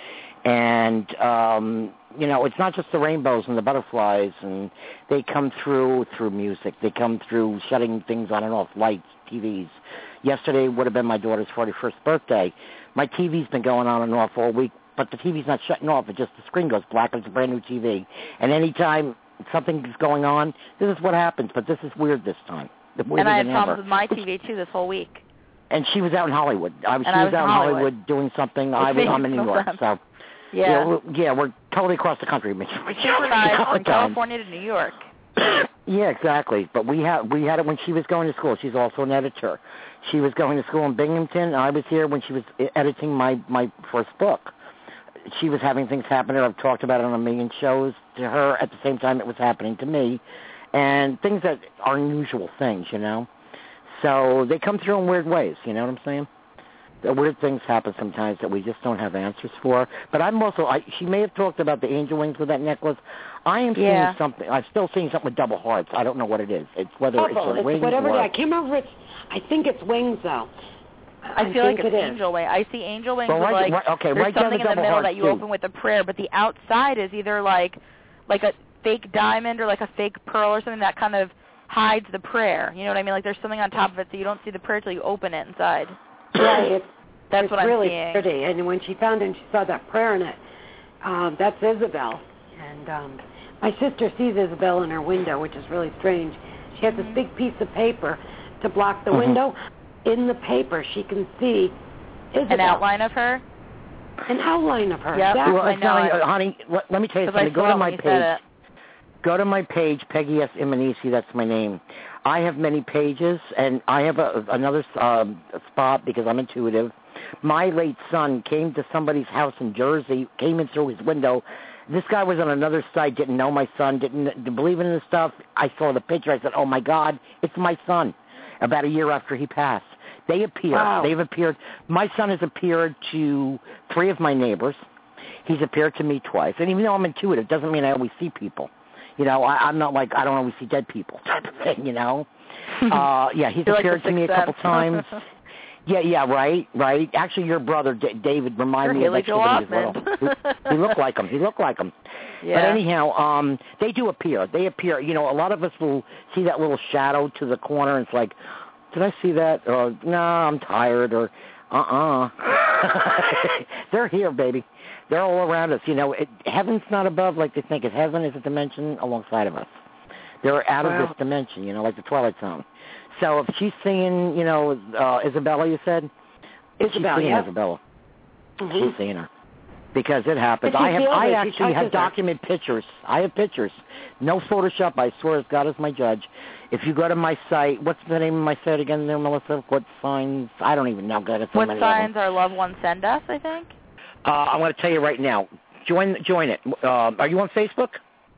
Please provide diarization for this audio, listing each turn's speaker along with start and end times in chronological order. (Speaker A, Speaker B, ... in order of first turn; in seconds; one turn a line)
Speaker A: 0.5-24.2
Speaker B: 23.2-25.2
Speaker A: 25.7-30.0
Speaker B: 27.1-27.9
Speaker B: 28.8-29.8
Speaker B: 30.5-30.9
Speaker A: 30.6-34.2
Speaker B: 33.0-35.1
Speaker A: 35.9-44.5
Speaker A: 45.3-50.2
Speaker A: 50.7-53.3
Speaker A: 53.9-56.3
Speaker A: 57.0-68.3
Speaker B: 63.8-64.2
Speaker C: 67.2-70.5
Speaker C: 71.2-72.2
Speaker B: 71.4-86.0
Speaker A: 73.3-75.4
Speaker C: 86.3-90.4
Speaker B: 87.3-88.2
Speaker C: 91.0-101.8
Speaker B: 96.9-97.2
Speaker A: 99.1-99.4
Speaker C: 102.3-102.8
Speaker B: 102.5-103.4
Speaker C: 104.3-105.7
Speaker B: 105.1-106.2
Speaker A: 105.4-108.4
Speaker B: 107.2-108.4
Speaker A: 109.2-134.8
Speaker C: 130.7-131.1
Speaker A: 135.4-142.3
Speaker A: 142.9-145.2
Speaker B: 143.7-145.2
Speaker A: 145.9-151.9
Speaker B: 148.8-150.9
Speaker B: 152.4-152.8
Speaker A: 152.5-158.4
Speaker A: 158.9-169.8
Speaker A: 170.4-176.1
Speaker C: 170.8-171.2
Speaker C: 176.8-177.5
Speaker A: 176.8-177.8
Speaker C: 178.6-179.0
Speaker A: 178.7-179.3
Speaker A: 179.9-192.1
Speaker C: 180.6-182.1
Speaker B: 191.5-193.7
Speaker A: 194.2-198.0